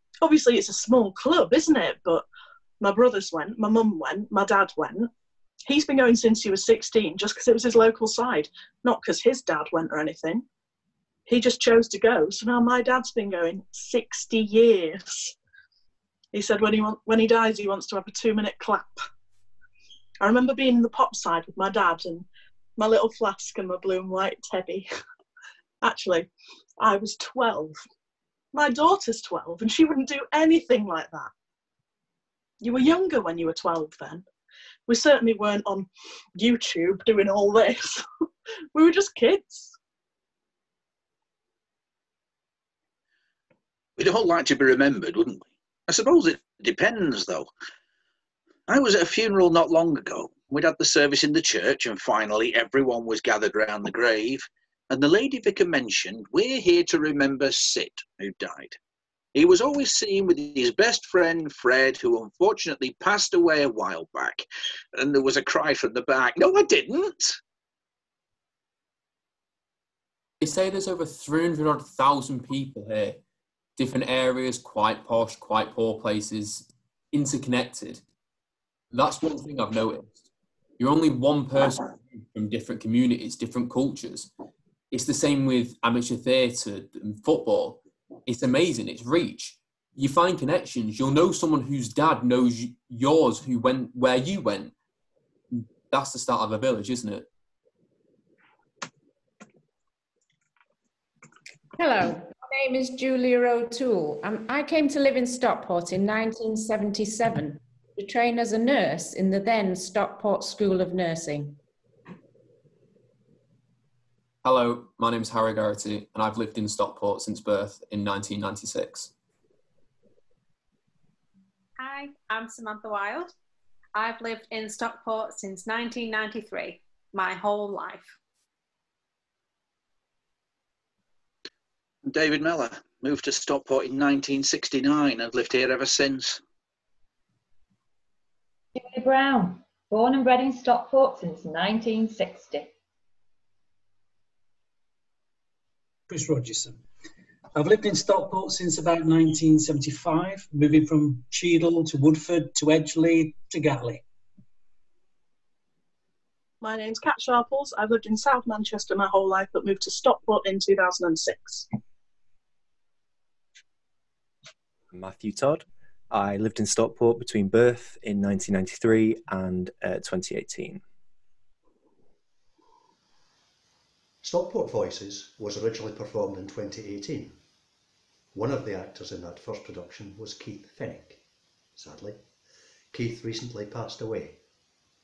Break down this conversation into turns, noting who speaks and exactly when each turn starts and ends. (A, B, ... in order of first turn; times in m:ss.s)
0:00.2-0:02.3 A
0:02.8-0:05.1 A
0:05.7-0:10.4 A
0:11.3-0:15.3 A
0:16.3-0:19.0 A
0:20.2-0:22.3 A
0:22.8-0:24.9 A
0:25.8-0:26.3 A
0:26.8-0:27.7 A
0:28.5-0:31.3 A
0:32.6-0:34.2 A
0:34.9-0:38.0 A
0:38.8-0:39.7 A
0:44.0-0:47.5 B
0:48.7-0:58.8 B
0:59.4-1:07.4 B
1:10.4-1:13.2 C
1:13.8-1:18.0 C
1:18.9-1:20.2 C
1:20.8-1:24.3 C
1:24.9-1:34.7 C
1:35.5-1:37.3 C
1:41.8-1:51.6 D
1:54.4-1:59.1 C
2:01.8-2:03.3 E
2:04.0-2:08.2 E
2:12.0-2:16.4 B
2:18.8-2:22.7 F
2:26.1-2:26.8 G
2:27.6-2:34.0 G
2:36.6-2:41.7 A
2:44.9-2:50.8 H
2:54.2-2:57.4 I
2:58.3-3:01.2 I
3:01.8-3:02.3 I
3:02.9-3:04.4 I